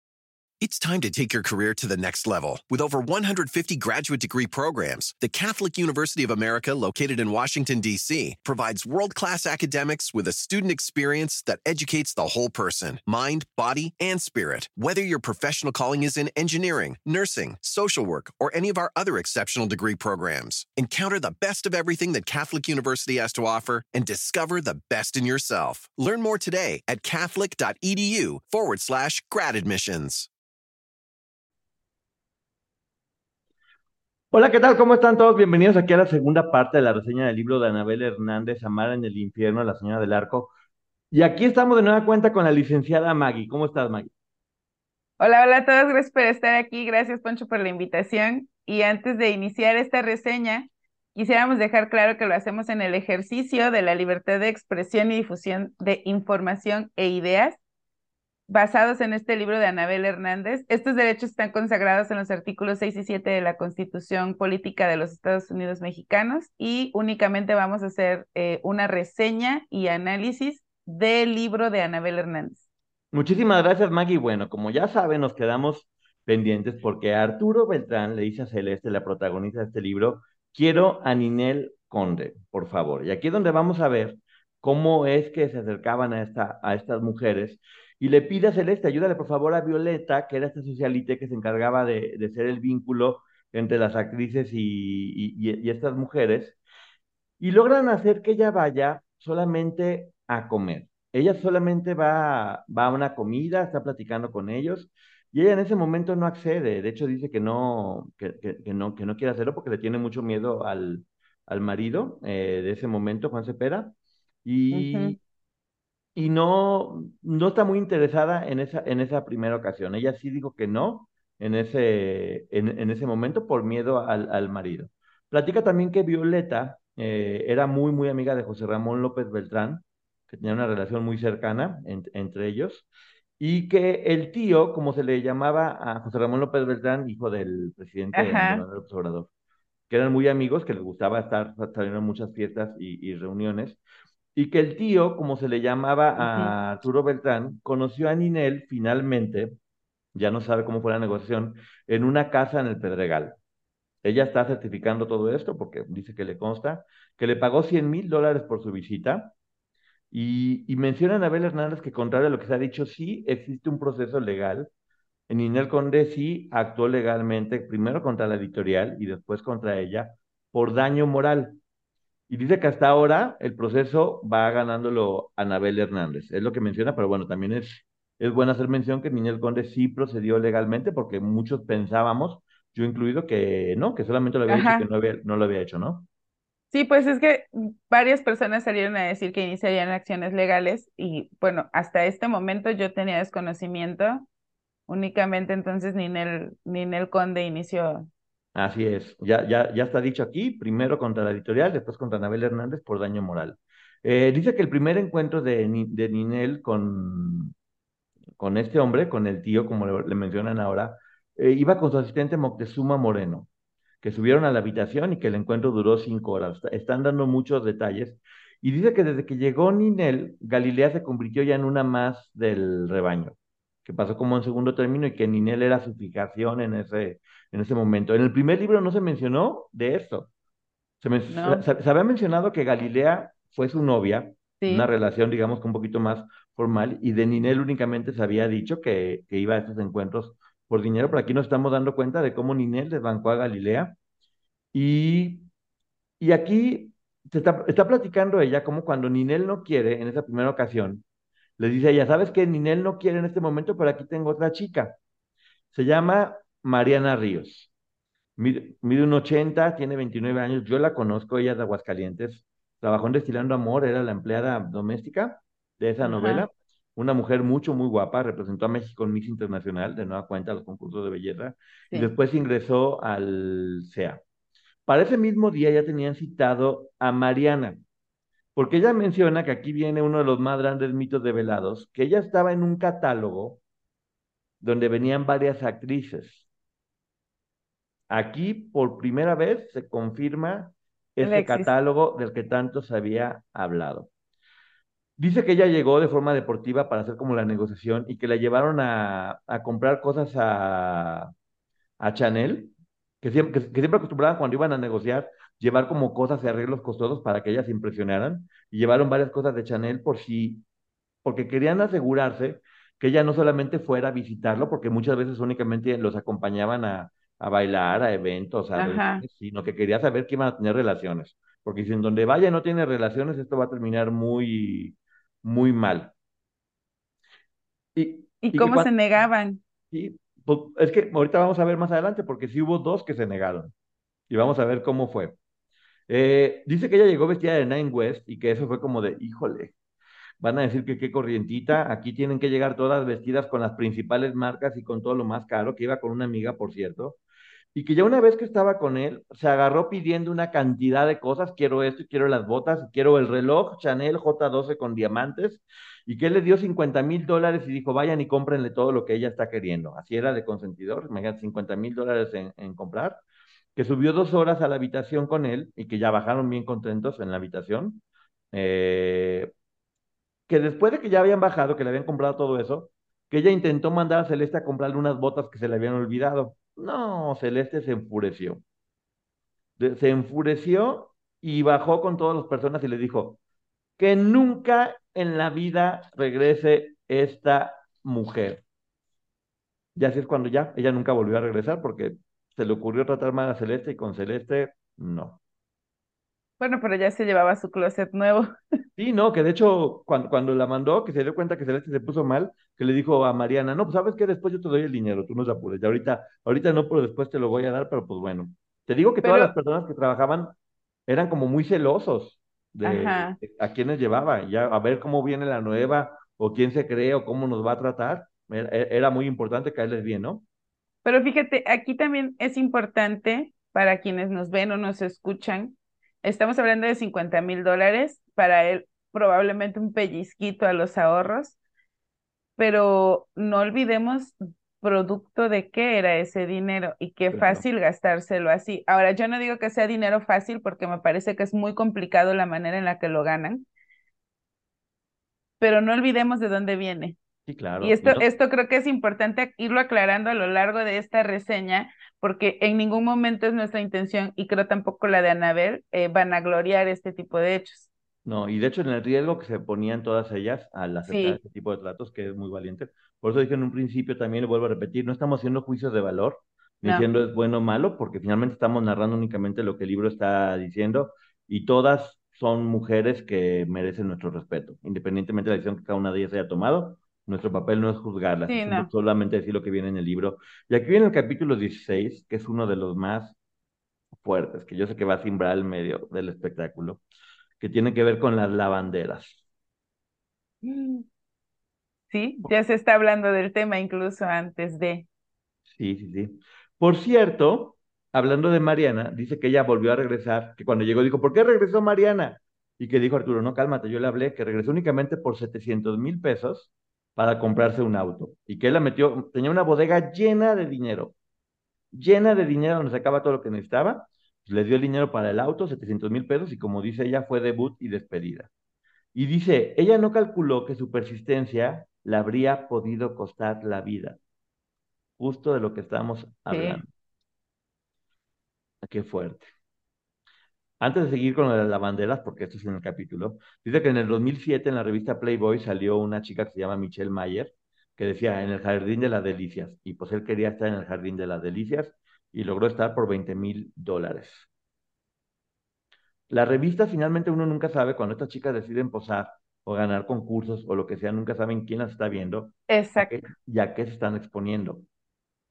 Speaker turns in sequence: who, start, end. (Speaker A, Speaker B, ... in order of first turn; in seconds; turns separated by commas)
Speaker A: 0.6-30.3, Speaker B: 34.3-40.5, Speaker B: 41.1-44.1, Speaker C: 45.2-57.6, Speaker C: 58.5-72.6, Speaker B: 73.1-96.6, Speaker B: 97.4-113.9, Speaker B: 114.5-115.2, Speaker C: 114.7-115.2, Speaker B: 116.2-132.9, Speaker B: 133.4-139.3, Speaker C: 138.1-138.6, Speaker B: 139.9-143.8, Speaker B: 144.3-149.6, Speaker C: 146.2-146.5, Speaker B: 150.1-153.4, Speaker B: 154.0-159.3, Speaker B: 160.1-164.7, Speaker B: 165.3-171.6, Speaker B: 172.3-186.1, Speaker C: 184.5-184.8, Speaker C: 186.7-194.3, Speaker C: 194.9-198.1, Speaker B: 198.6-207.5, Speaker B: 208.4-213.5, Speaker B: 214.0-230.3, Speaker B: 231.0-244.0, Speaker C: 231.3-231.6, Speaker C: 234.6-234.9, Speaker B: 244.7-245.5, Speaker B: 246.2-251.0, Speaker B: 251.6-255.0, Speaker B: 255.7-257.7, Speaker B: 258.4-274.2, Speaker C: 266.0-266.4, Speaker B: 274.9-277.8, Speaker B: 278.6-283.6, Speaker B: 284.6-286.5, Speaker B: 288.1-294.1, Speaker C: 291.2-291.7, Speaker B: 295.2-301.3, Speaker B: 302.0-310.6, Speaker B: 311.2-326.1, Speaker C: 318.8-319.2, Speaker B: 327.9-328.9, Speaker C: 328.4-329.6, Speaker B: 329.9-333.7, Speaker B: 334.3-335.4, Speaker B: 336.1-339.7, Speaker B: 340.4-347.2, Speaker B: 347.7-363.2, Speaker B: 363.8-368.0, Speaker B: 368.5-369.5, Speaker B: 370.5-378.6, Speaker B: 379.8-383.4, Speaker B: 384.0-388.6, Speaker B: 390.0-395.4, Speaker C: 396.6-398.5, Speaker B: 399.0-410.5, Speaker C: 409.2-409.5, Speaker B: 411.1-420.4, Speaker C: 412.9-413.4, Speaker C: 421.0-431.6, Speaker C: 432.6-443.7, Speaker B: 437.3-437.6, Speaker C: 445.6-447.2, Speaker B: 447.5-448.3, Speaker C: 447.8-457.9, Speaker B: 458.2-483.4, Speaker C: 461.1-461.4, Speaker C: 478.5-478.9, Speaker B: 484.2-487.0, Speaker B: 487.6-489.4, Speaker C: 490.6-491.1, Speaker C: 492.1-495.1, Speaker B: 495.7-511.1, Speaker B: 511.9-518.5, Speaker B: 519.1-524.2, Speaker B: 525.2-526.9, Speaker C: 526.5-526.8, Speaker B: 528.8-529.5, Speaker B: 530.8-544.5, Speaker B: 546.3-554.9, Speaker C: 552.7-553.1